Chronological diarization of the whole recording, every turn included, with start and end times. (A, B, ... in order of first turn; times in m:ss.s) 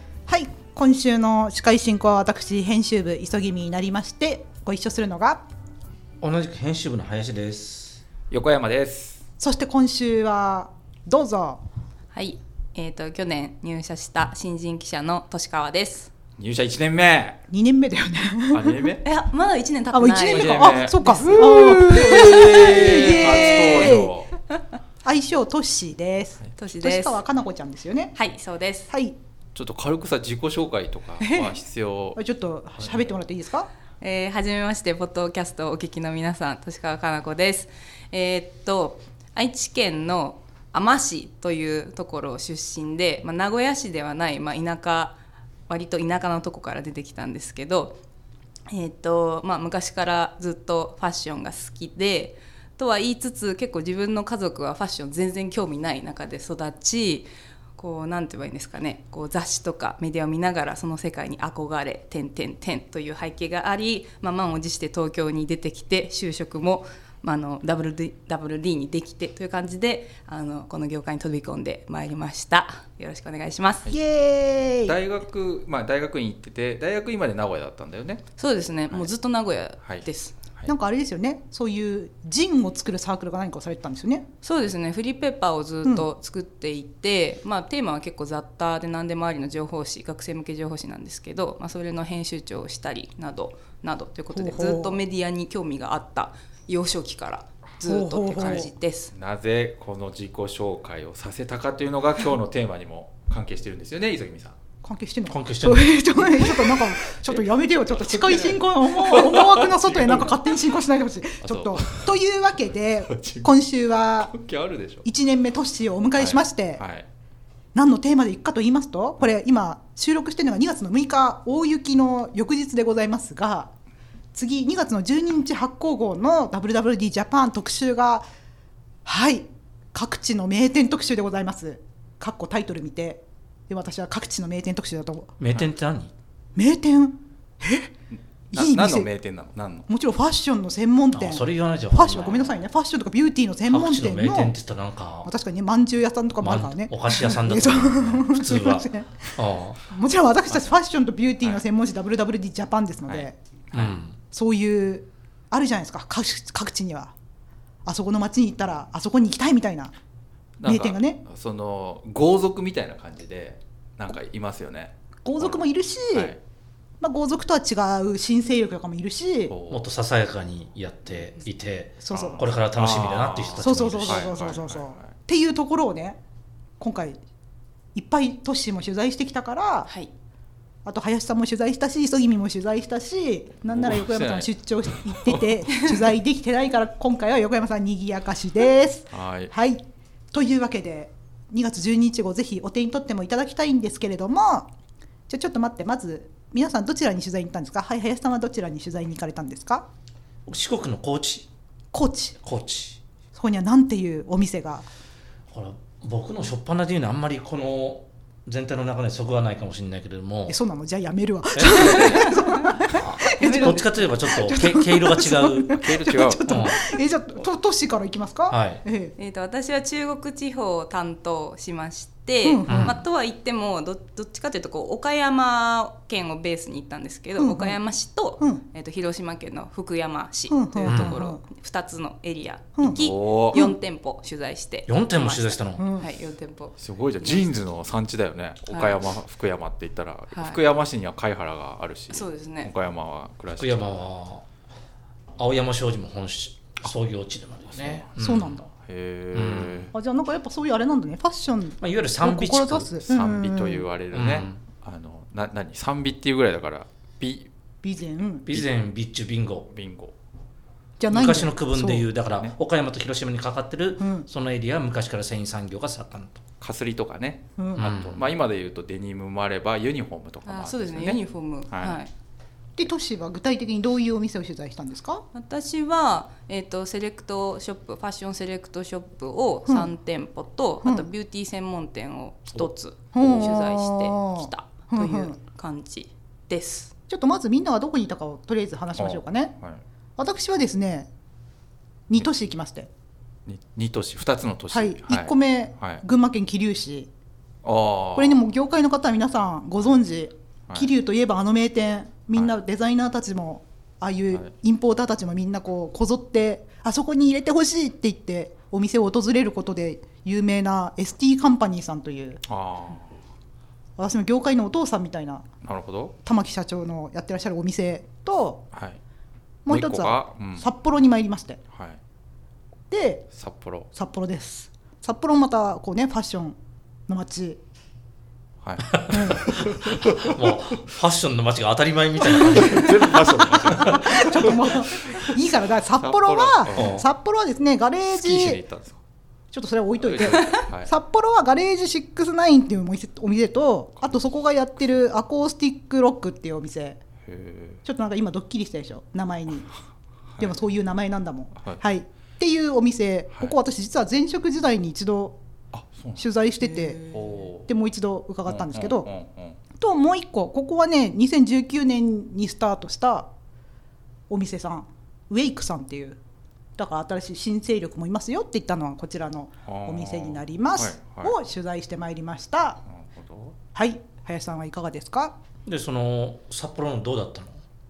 0:00.3-0:05.5 A
0:06.2-0:08.0 B
0:08.3-0:09.2 C
0:09.4-0:11.6 A
0:12.1-0:16.1 D
0:16.4-0:17.4 C
0:17.5-0:18.9 A
0:18.5-0:19.0 C
0:19.0-0:24.0 D
0:19.9-0:24.1 A
0:20.2-0:24.3 C
0:25.0-0:28.1 A
0:26.6-0:27.2 D
0:28.1-0:28.9 D
0:28.9-0:29.2 A
0:29.5-0:32.2 C
0:31.2-0:31.5 A
0:32.2-0:33.7 A
0:32.8-0:33.1 C
0:34.0-0:48.0 D
0:48.7-1:13.9 D
1:13.9-1:15.0 A
1:14.8-1:18.2 C
1:18.4-1:20.4 D
1:19.8-1:20.7 C
1:20.7-1:24.3 A
1:24.4-1:39.1 D
1:34.3-1:35.0 A
1:37.8-1:38.7 A
1:39.1-1:44.6 C
1:44.8-1:54.3 A
1:45.3-1:46.0 B
1:47.3-1:50.5 C
1:51.4-1:52.2 C
1:53.1-1:53.5 C
1:54.2-1:55.1 C
1:55.0-1:56.8 A
1:56.2-1:57.1 C
1:57.8-2:03.7 A
2:04.3-2:08.3 A
2:09.0-2:15.3 A
2:15.4-2:16.1 B
2:16.6-2:17.9 A
2:18.5-2:19.9 C
2:18.5-2:19.1 A
2:19.9-2:24.6 A
2:21.1-2:22.5 B
2:23.7-2:25.3 B
2:25.2-2:33.3 A
2:26.4-2:29.9 B
2:33.1-2:33.9 C
2:33.7-2:34.2 B
2:34.3-2:37.1 A
2:37.8-2:39.9 A
2:40.6-2:46.4 C
2:40.6-2:41.2 A
2:45.2-2:46.3 A
2:47.0-2:49.5 A
2:49.5-2:49.8 C
2:49.7-2:54.4 B
2:52.0-2:52.4 A
2:52.1-2:55.1 C
2:53.6-2:56.2 A
2:56.8-2:57.2 A
2:57.9-2:59.9 A
3:00.8-3:14.7 A
3:03.8-3:05.5 C
3:09.1-3:09.5 C
3:15.3-3:19.9 A
3:20.4-3:21.5 B
3:21.9-3:22.4 A
3:22.4-3:23.0 B
3:23.3-3:24.9 A
3:25.5-3:30.6 B
3:30.5-3:39.2 A
3:31.5-3:32.4 B
3:32.9-3:35.9 B
3:33.3-3:34.0 D
3:35.7-3:36.7 C
3:36.5-3:36.8 B
3:38.5-3:38.8 B
3:39.2-3:57.4 D
3:42.4-3:42.9 A
3:42.7-3:43.0 B
3:47.4-3:47.8 A
3:50.5-3:51.4 A
3:50.9-3:51.2 B
3:52.8-3:53.8 A
3:52.9-3:53.6 C
3:54.9-3:55.8 B
3:55.8-3:56.1 A
3:56.8-4:04.0 C
3:58.7-3:59.0 D
4:00.3-4:00.6 D
4:02.1-4:02.7 D
4:03.5-4:04.5 B
4:05.4-4:08.6 B
4:07.7-4:08.2 C
4:08.2-4:08.7 A
4:08.7-4:09.9 C
4:09.3-4:09.9 B
4:09.9-4:13.8 A
4:11.8-4:13.0 B
4:13.1-4:17.5 C
4:14.1-4:14.6 B
4:17.8-4:18.5 A
4:18.5-4:19.7 B
4:19.7-4:20.1 C
4:21.0-4:22.1 A
4:21.1-4:26.4 B
4:24.0-4:24.3 A
4:26.6-4:32.0 C
4:27.6-4:27.9 A
4:27.8-4:28.3 B
4:30.4-4:32.1 D
4:32.8-4:35.2 A
4:35.3-4:46.9 D
4:43.1-4:45.4 A
4:47.1-4:49.5 A
4:49.0-4:49.8 C
4:50.2-4:51.1 A
4:52.1-4:52.9 A
4:53.5-4:56.0 C
4:54.7-4:57.1 A
4:57.6-4:58.4 C
4:58.2-5:12.4 A
5:12.5-5:13.2 C
5:14.0-5:15.5 A
5:15.6-5:16.2 C
5:16.2-5:18.6 A
5:18.7-5:19.0 C
5:19.7-5:21.6 A
5:19.7-5:20.7 C
5:21.7-5:22.0 C
5:22.9-5:23.2 A
5:23.3-5:23.9 C
5:23.9-5:26.6 A
5:27.1-5:27.6 A
5:28.6-5:30.3 C
5:28.9-5:34.5 B
5:29.1-5:29.4 A
5:32.4-5:35.2 C
5:32.4-5:32.9 A
5:33.7-5:38.6 A
5:36.0-5:37.0 C
5:36.8-5:37.1 B
5:38.1-5:39.0 C
5:39.5-5:47.0 A
5:40.0-5:40.9 C
5:47.3-5:47.8 C
5:47.8-5:49.7 A
5:50.4-5:55.4 A
5:55.7-5:56.2 C
5:56.2-5:57.0 A
5:56.7-5:57.4 D
5:57.1-5:57.7 C
5:57.7-5:59.1 A
5:58.5-5:59.6 C
5:59.8-6:03.3 A
6:04.3-6:06.2 A
6:06.8-6:12.8 A
6:09.7-6:11.4 C
6:12.9-6:13.6 C
6:13.7-6:15.4 A
6:15.7-6:17.6 B